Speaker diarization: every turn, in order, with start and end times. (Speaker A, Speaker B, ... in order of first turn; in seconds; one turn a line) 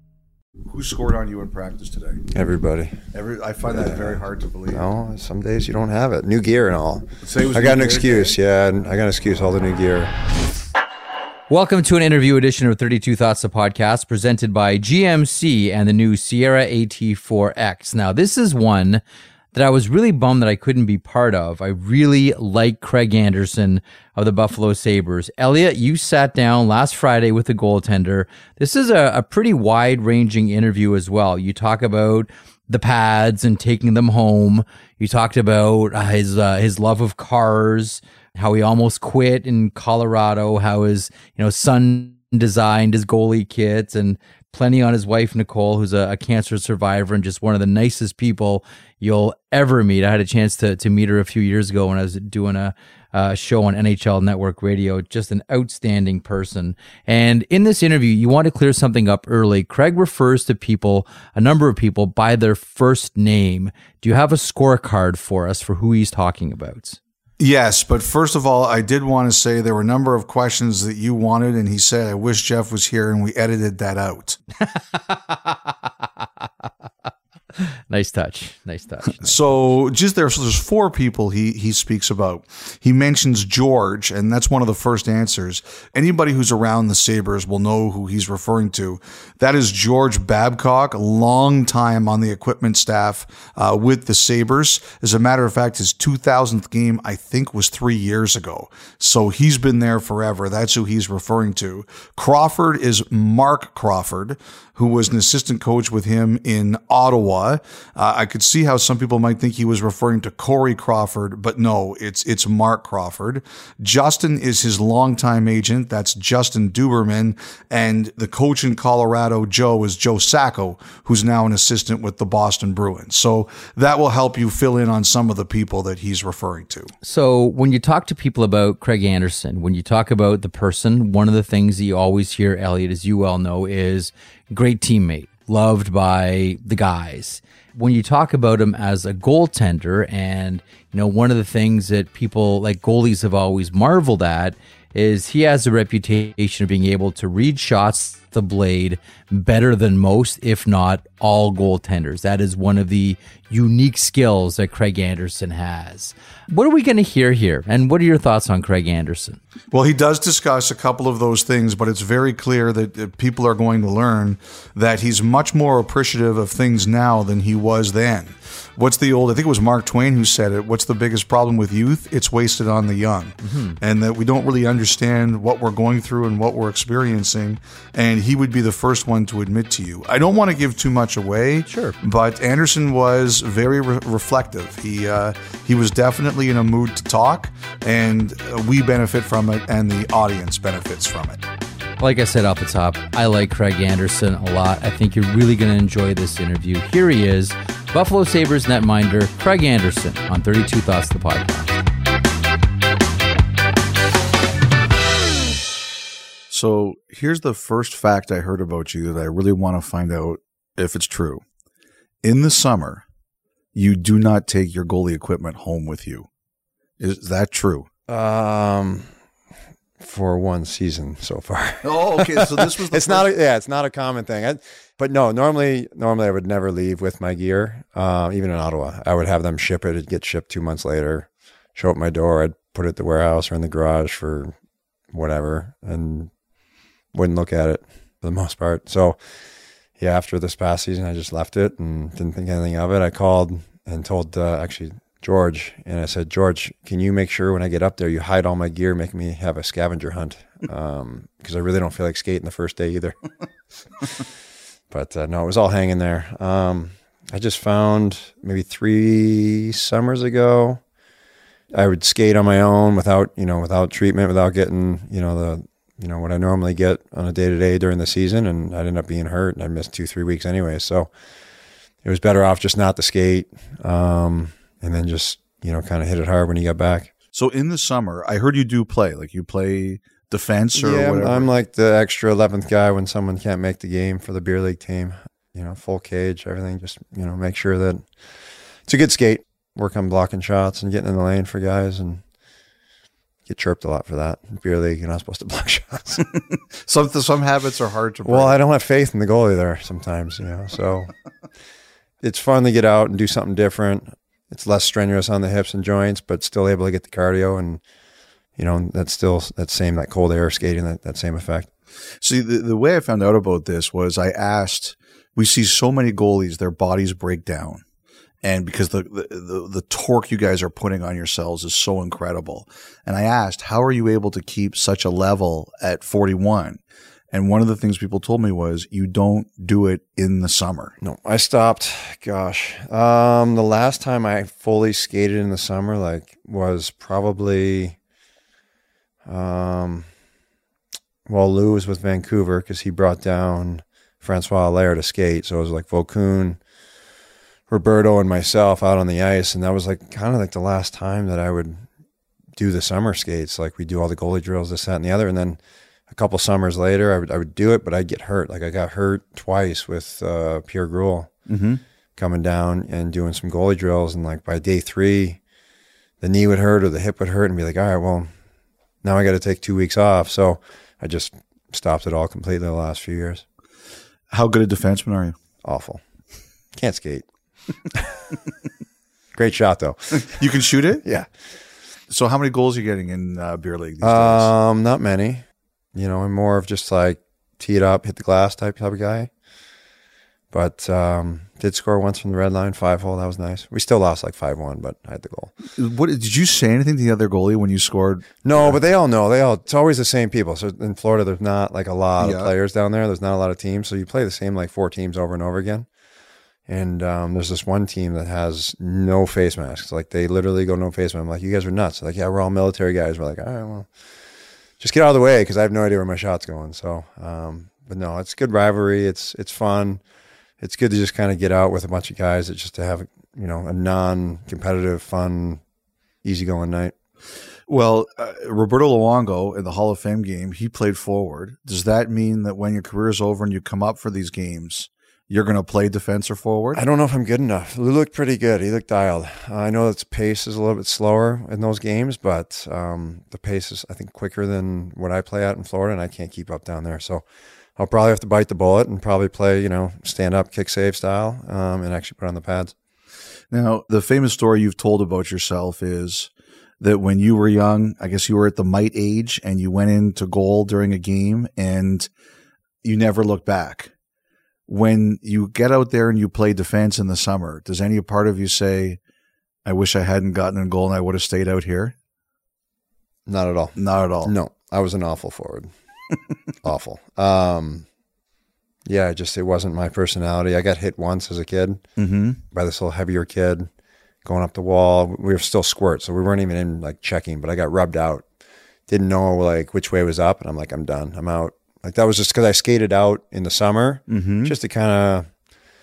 Speaker A: 0.7-2.3
Speaker B: 2.3-3.0
Speaker A: 3.1-4.9
Speaker B: 3.7-10.1
Speaker A: 7.2-8.4
Speaker C: 11.5-19.0
Speaker C: 19.5-67.0
Speaker A: 67.4-74.4
Speaker C: 74.7-76.2
Speaker C: 77.9-79.3
Speaker A: 79.2-126.9
Speaker C: 127.0-159.4
Speaker A: 159.7-191.4
Speaker C: 173.4-173.8
Speaker C: 181.7-182.0
Speaker C: 192.0-201.7
Speaker A: 206.5-211.4
Speaker A: 212.2-213.0
Speaker A: 213.8-216.3
Speaker A: 217.0-217.9
Speaker B: 218.1-219.1
Speaker B: 220.0-234.6
Speaker A: 221.8-223.3
Speaker B: 235.1-236.3
Speaker B: 237.1-239.2
Speaker B: 240.0-253.2
Speaker B: 254.9-260.8
Speaker B: 261.7-271.1
Speaker B: 272.0-277.1
Speaker A: 277.3-281.5
Speaker B: 280.8-288.1
Speaker B: 288.9-292.2
Speaker B: 293.5-296.3
Speaker A: 296.3-298.6
Speaker B: 298.2-301.1
Speaker B: 302.2-307.8
Speaker B: 308.6-311.7
Speaker A: 312.2-317.8
Speaker A: 318.4-326.8
Speaker A: 327.3-330.9
Speaker B: 331.0-338.0
Speaker B: 339.3-340.1
Speaker B: 341.3-346.6
Speaker B: 347.7-351.9
Speaker B: 352.6-361.3
Speaker A: 361.5-361.8
Speaker B: 362.2-365.4
Speaker B: 366.2-368.3
Speaker B: 369.0-373.4
Speaker A: 374.3-375.4
Speaker B: 375.6-376.0
Speaker B: 376.7-377.3
Speaker B: 377.9-378.2
Speaker B: 379.4-380.4
Speaker A: 380.1-381.0
Speaker B: 381.0-381.3
Speaker A: 382.1-384.5
Speaker B: 384.0-389.3
Speaker B: 390.5-395.5
Speaker A: 395.8-398.8
Speaker B: 398.4-405.9
Speaker A: 402.2-402.5
Speaker B: 406.7-413.9
Speaker B: 414.8-420.0
Speaker B: 420.6-425.6
Speaker B: 426.2-426.9
Speaker A: 427.7-436.8
Speaker B: 436.7-447.2
Speaker B: 447.8-452.7
Speaker A: 453.5-456.3
Speaker A: 456.8-462.1
Speaker A: 462.8-463.9
Speaker A: 464.7-469.0
Speaker A: 469.6-471.9
Speaker B: 473.3-475.7
Speaker A: 473.8-474.3
Speaker B: 476.6-477.9
Speaker B: 478.9-481.8
Speaker A: 482.0-482.4
Speaker B: 482.5-483.7
Speaker B: 484.2-488.3
Speaker B: 488.9-495.3
Speaker A: 494.1-494.6